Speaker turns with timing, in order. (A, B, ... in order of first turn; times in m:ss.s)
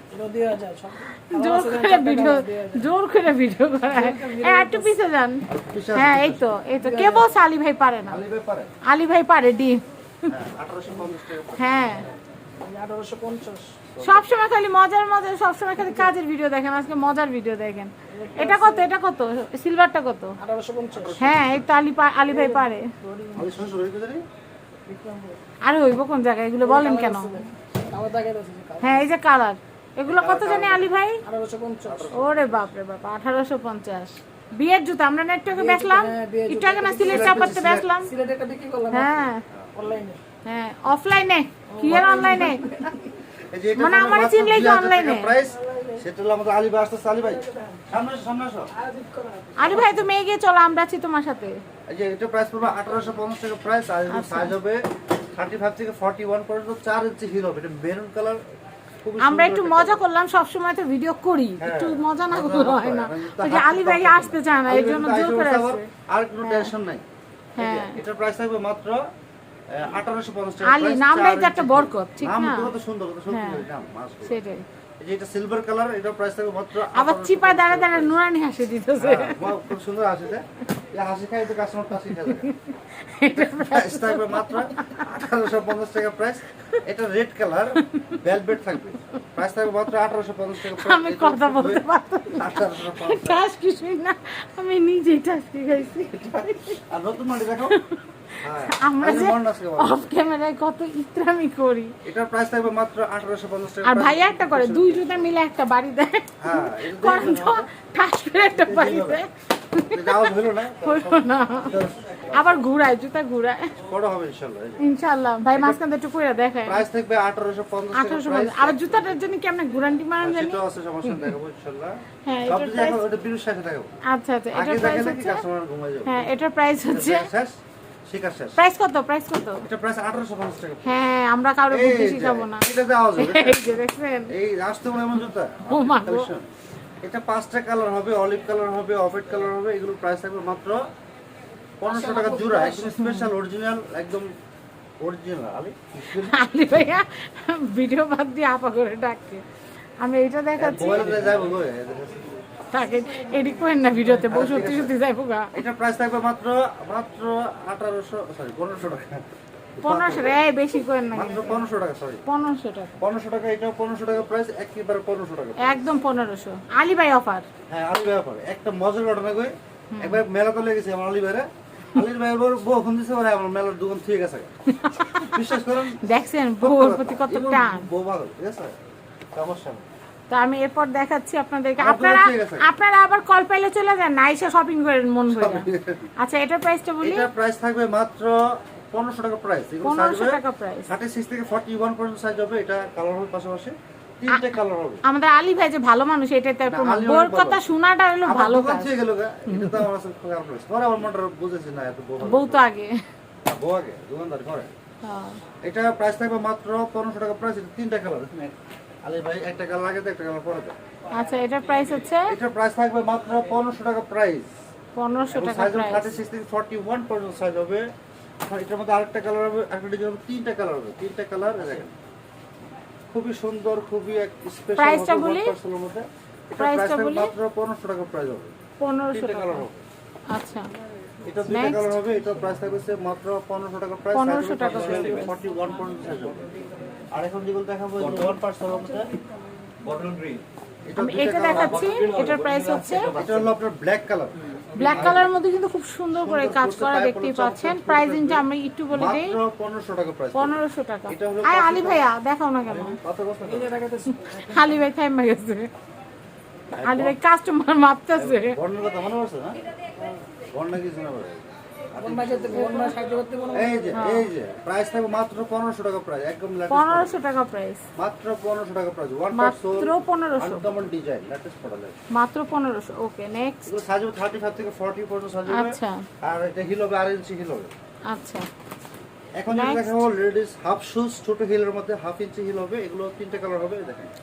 0:00.1-0:02.9 A
0:01.1-0:08.2 B
0:03.9-0:04.9 A
0:05.5-0:06.5 C
0:06.7-0:07.3 A
0:08.1-0:08.7 C
0:08.8-0:09.8 B
0:10.3-0:12.0 C
0:11.5-0:12.1 B
0:12.6-0:13.8 A
0:14.0-0:14.3 C
0:14.0-0:20.4 B
0:15.8-0:16.1 A
0:18.1-0:18.9 A
0:20.4-0:21.2 A
0:20.9-0:21.7 C
0:21.2-0:22.9 B
0:22.3-0:23.7 A
0:23.4-0:24.2 C
0:24.9-0:25.4 A
0:25.6-0:27.4 B
0:26.6-0:29.1 A
0:28.8-0:31.2 B
0:30.1-0:30.9 C
0:31.2-0:32.1 A
0:31.8-0:32.7 C
0:32.1-0:38.1 B
0:35.5-0:40.2 A
0:37.0-0:37.9 C
0:38.9-0:39.4 B
0:39.5-0:39.8 C
0:40.4-0:42.7 B
0:41.7-0:43.2 A
0:41.9-0:48.7 C
0:43.8-0:45.4 B
0:45.5-0:46.0 A
0:47.3-0:47.9 A
0:48.8-0:50.0 A
0:49.6-0:51.6 B
0:51.9-0:58.4 C
0:54.1-0:54.5 B
0:59.0-1:00.0 C
0:59.2-1:05.9 B
1:01.6-1:07.0 C
1:06.4-1:06.7 B
1:07.6-1:08.0 B
1:07.6-1:09.0 C
1:09.7-1:14.4 C
1:10.6-1:12.7 B
1:13.3-1:13.6 B
1:14.2-1:14.6 B
1:15.0-1:18.2 C
1:16.9-1:19.6 B
1:19.0-1:22.5 C
1:22.2-1:25.0 B
1:23.3-1:33.4 C
1:27.9-1:28.2 B
1:30.6-1:36.4 B
1:36.1-1:37.8 C
1:37.7-1:41.9 B
1:38.4-1:40.1 C
1:42.0-1:45.3 C
1:43.8-1:53.8 B
1:46.4-1:47.7 C
1:48.4-1:49.2 C
1:49.8-1:52.6 C
1:53.8-1:54.8 C
1:54.8-1:56.8 B
1:55.5-1:55.8 C
1:56.7-1:59.2 C
1:57.9-2:01.3 B
2:00.2-2:04.0 C
2:02.3-2:03.0 B
2:04.1-2:05.4 B
2:04.5-2:06.3 C
2:06.0-2:07.3 B
2:06.9-2:08.6 C
2:08.6-2:09.7 B
2:09.6-2:11.0 C
2:10.8-2:14.3 B
2:11.7-2:16.5 C
2:15.7-2:16.3 B
2:17.0-2:20.8 C
2:21.8-2:24.3 C
2:21.9-2:23.0 A
2:23.0-2:23.3 B
2:25.0-2:26.4 C
2:26.0-2:29.4 B
2:30.0-2:31.2 B
2:30.6-2:32.4 C
2:32.7-2:35.6 B
2:34.3-2:34.9 C
2:35.5-2:39.2 C
2:39.8-2:40.4 C
2:39.8-2:41.6 B
2:41.1-2:42.2 C
2:42.3-2:43.0 B
2:43.0-2:45.9 C
2:45.6-2:47.5 B
2:47.7-2:54.5 C
2:49.9-2:50.2 B
2:54.7-2:57.9 B
2:55.1-2:58.8 C
2:59.3-2:59.8 C
3:00.3-3:05.7 B
3:01.8-3:02.7 C
3:05.3-3:06.1 C
3:06.2-3:07.3 B
3:07.0-3:15.0 C
3:09.8-3:10.9 B
3:14.3-3:18.9 B
3:16.7-3:17.7 C
3:18.2-3:22.7 C
3:19.5-3:19.9 B
3:22.2-3:23.0 B
3:23.4-3:24.7 C
3:25.0-3:25.4 B
3:25.6-3:30.8 C
3:31.1-3:32.4 B
3:32.3-3:34.5 C
3:35.0-3:36.1 B
3:35.3-3:37.9 C
3:38.5-3:41.9 C
3:43.1-3:48.5 C
3:44.8-3:45.5 B
3:46.6-3:47.3 B
3:48.8-3:49.7 B
3:49.1-3:49.8 C
3:50.3-3:50.7 B
3:51.2-3:56.6 C
3:51.5-3:52.0 B
3:54.1-3:55.4 B
3:57.1-3:59.1 C
3:59.8-4:00.4 D
4:00.9-4:02.0 C
4:01.0-4:03.2 B
4:01.5-4:03.3 D
4:03.0-4:05.3 C
4:04.7-4:09.4 B
4:06.1-4:12.1 C
4:10.4-4:13.0 B
4:12.7-4:13.7 C
4:13.5-4:14.6 A
4:14.2-4:15.7 B
4:16.7-4:17.2 C
4:16.8-4:18.6 B
4:18.2-4:19.6 C
4:20.5-4:22.8 C
4:22.0-4:24.0 A
4:23.5-4:27.2 C
4:23.9-4:24.3 B
4:26.7-4:27.8 B
4:28.0-4:32.0 C
4:29.3-4:30.7 B
4:32.1-4:33.8 B
4:33.7-4:37.7 C
4:35.5-4:36.0 B
4:38.1-4:38.5 B
4:39.4-4:44.1 C
4:39.5-4:40.0 B